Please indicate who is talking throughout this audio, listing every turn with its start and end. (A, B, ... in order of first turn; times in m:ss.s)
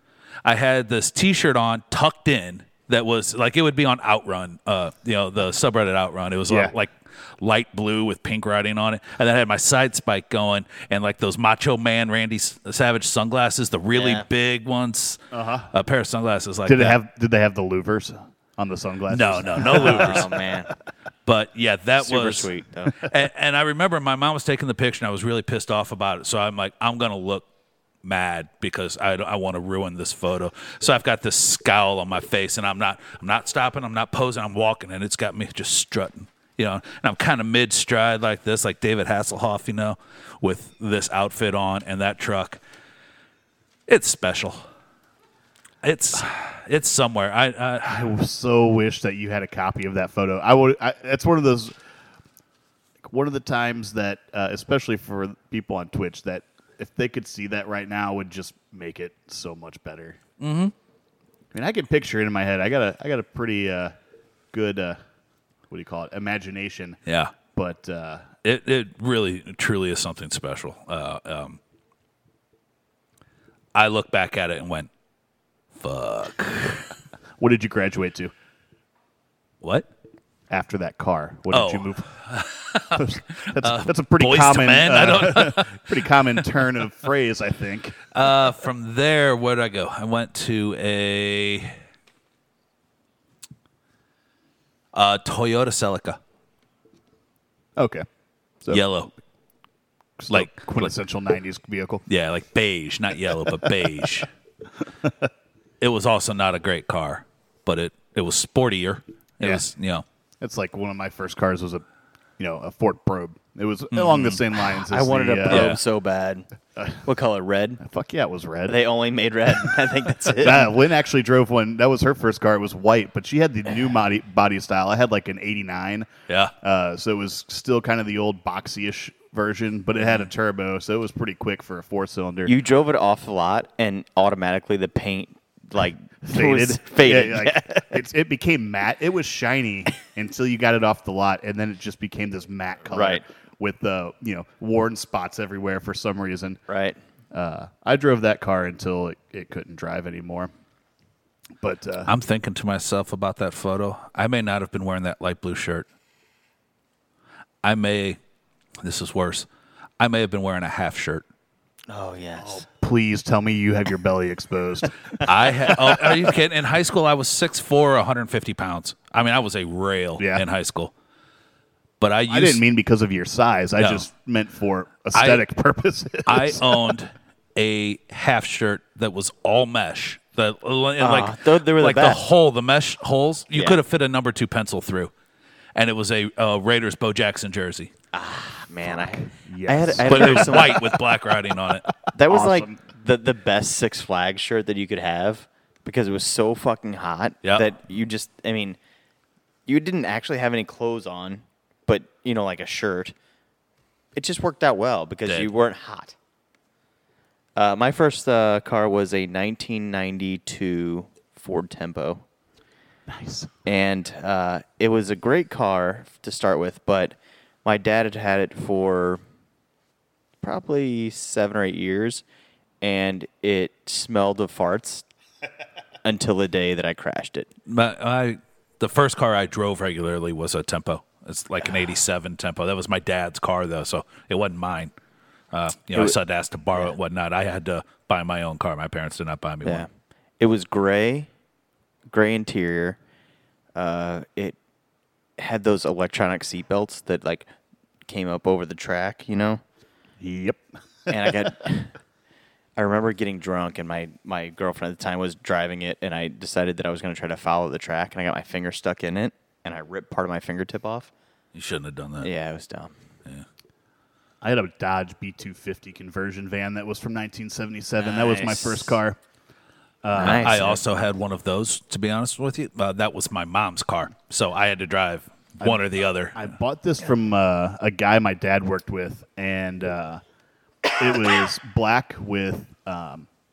0:00.4-0:15.2 A
0:06.5-0:06.7 B
0:14.0-0:14.3 C
0:15.3-0:15.7 B
0:15.7-0:17.0 A
0:16.7-0:20.4 B
0:19.1-0:20.4 A
0:19.7-0:20.7 C
0:21.3-0:27.4 A
0:22.0-0:23.0 C
0:28.0-0:42.6 A
0:43.9-0:44.6 A
0:45.8-0:48.1 A
0:47.8-0:51.8 B
0:53.0-1:00.2 B
1:00.4-1:00.7 A
1:01.5-1:04.0 B
1:04.5-1:05.0 B
1:05.7-1:07.0 B
1:07.1-1:07.3 A
1:07.5-1:08.3 B
1:08.4-1:11.6 A
1:13.7-1:14.9 A
1:15.8-1:16.9 A
1:17.4-1:18.3 B
1:19.6-1:19.9 A
1:20.5-1:22.1 B
1:21.5-1:26.0 A
1:23.0-1:28.0 B
1:28.1-1:31.8 A
1:34.9-1:36.2 A
1:37.8-1:38.1 B
1:38.7-1:39.1 A
1:40.2-1:42.0 B
1:40.3-1:40.9 A
1:42.1-1:44.3 A
1:43.6-1:44.1 B
1:45.0-1:45.3 B
1:45.8-1:50.0 A
1:50.4-1:51.8 B
1:52.4-1:55.8 B
1:53.9-1:54.4 A
1:54.8-1:56.5 C
1:55.5-1:55.8 A
1:57.0-1:57.8 C
1:57.8-1:58.8 B
1:58.7-2:00.8 C
2:00.3-2:06.1 B
2:06.3-2:06.5 A
2:06.6-2:12.6 B
2:12.5-2:18.0 C
2:16.2-2:26.6 B
2:22.9-2:23.2 C
2:26.7-2:27.0 C
2:27.3-2:30.5 B
2:31.6-2:32.1 B
2:32.1-2:35.9 A
2:37.6-2:38.2 A
2:38.8-2:39.5 A
2:40.0-2:41.2 A
2:41.9-2:42.6 C
2:42.4-2:46.3 B
2:45.2-2:50.9 A
2:50.2-2:50.4 B
2:52.0-2:52.6 A
2:52.3-2:56.8 B
2:53.8-2:54.0 A
2:55.1-2:55.4 A
2:56.3-3:05.1 A
3:01.0-3:02.2 C
3:03.5-3:03.8 C
3:05.8-3:07.9 A
3:08.1-3:10.9 C
3:08.8-3:11.0 B
3:10.0-3:11.9 A
3:12.1-3:18.8 C
3:12.3-3:12.8 B
3:19.7-3:23.1 C
3:24.2-3:26.2 C
3:27.6-3:32.2 C
3:33.1-3:33.5 B
3:33.6-3:39.2 C
3:40.4-3:42.2 C
3:42.8-3:45.0 C
3:46.0-3:47.5 C
3:47.7-3:54.9 A
3:55.5-3:59.9 A
4:00.4-4:01.3 C
4:02.1-4:03.0 C
4:03.8-4:04.6 C
4:05.4-4:07.5 C
4:08.1-4:09.6 C
4:10.2-4:10.6 B
4:11.1-4:11.9 C
4:12.8-4:21.1 C
4:21.6-4:22.3 A
4:22.2-4:22.9 C
4:24.4-4:29.2 B
4:28.0-4:29.0 C
4:30.0-4:30.8 B
4:30.1-4:30.8 C
4:30.2-4:36.4 A
4:36.3-4:40.2 B
4:41.0-4:43.3 B